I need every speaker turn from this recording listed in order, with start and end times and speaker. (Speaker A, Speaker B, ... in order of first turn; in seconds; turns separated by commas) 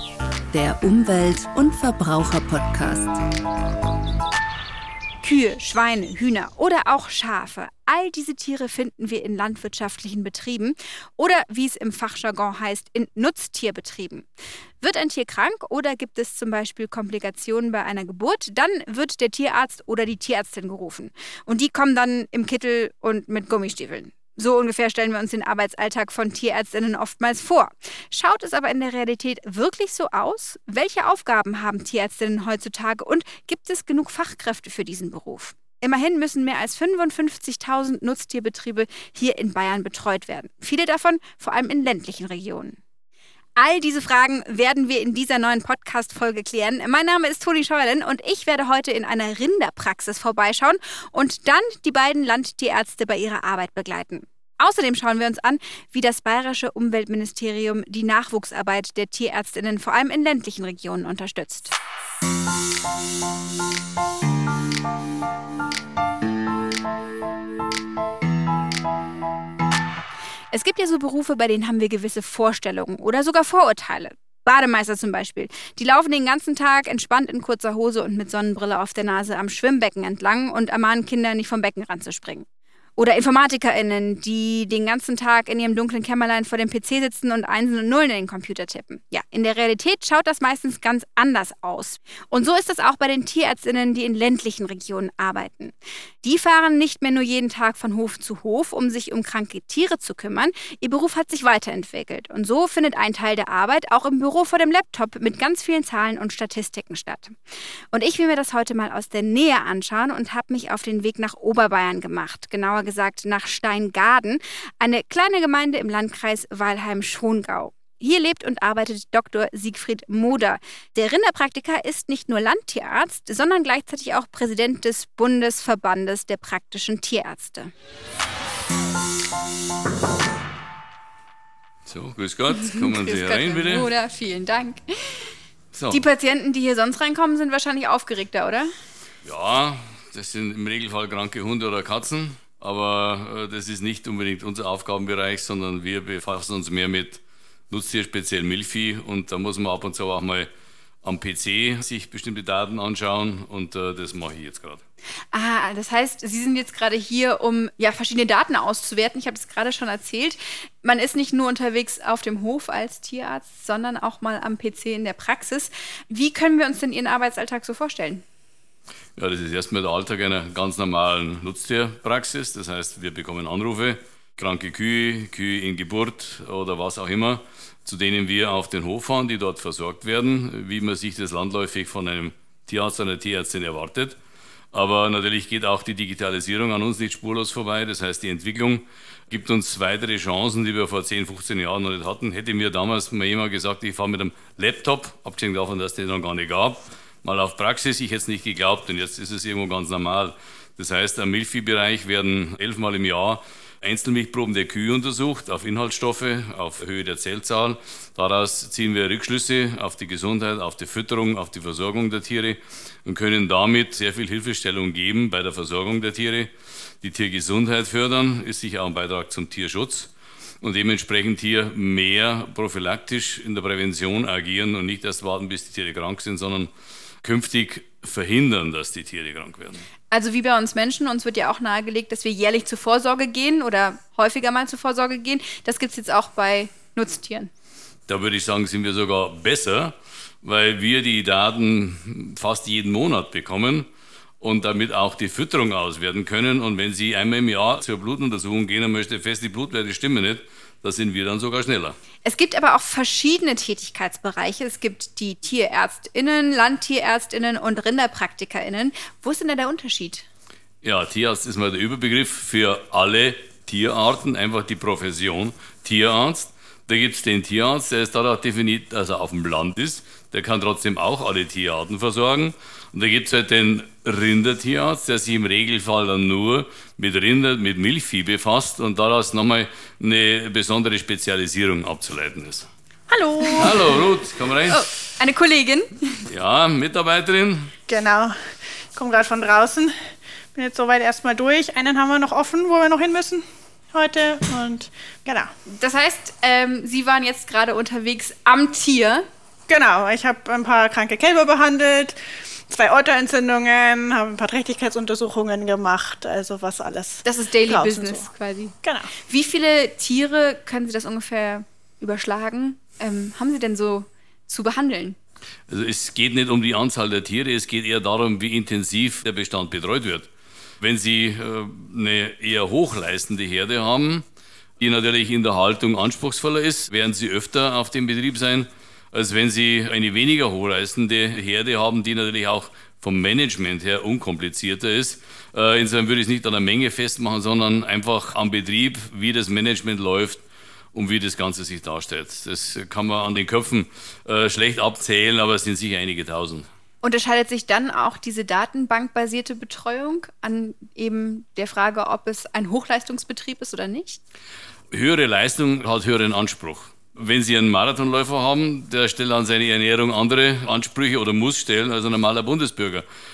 Speaker A: 0.5-3.2, Speaker B: 5.2-14.3, Speaker B: 14.8-42.8, Speaker B: 43.6-61.7, Speaker B: 70.5-82.5, Speaker B: 83.0-107.3, Speaker B: 107.9-127.7, Speaker C: 131.9-133.9, Speaker B: 132.5-135.3, Speaker C: 135.7-136.0, Speaker B: 135.9-138.7, Speaker C: 139.2-150.5, Speaker C: 151.0-154.8, Speaker B: 155.3-168.2, Speaker C: 169.2-184.2, Speaker C: 184.7-216.5, Speaker C: 217.0-220.1, Speaker C: 220.6-226.7, Speaker C: 227.2-229.8, Speaker B: 230.1-237.5, Speaker C: 238.1-243.9, Speaker C: 244.4-251.9, Speaker B: 252.2-260.2, Speaker C: 260.8-282.7, Speaker D: 283.1-283.9, Speaker C: 283.6-284.9, Speaker B: 284.7-286.1, Speaker C: 286.3-287.7, Speaker D: 287.9-288.4, Speaker D: 288.9-289.9, Speaker D: 290.5-295.5, Speaker B: 295.6-299.3, Speaker D: 299.7-302.1, Speaker D: 302.7-308.2, Speaker B: 307.2-308.7, Speaker D: 308.8-309.1, Speaker B: 309.2-315.2, Speaker C: 315.7-320.3, Speaker C: 320.8-324.2, Speaker C: 324.8-340.4, Speaker C: 340.9-346.7, Speaker B: 347.0-354.2, Speaker C: 354.9-363.0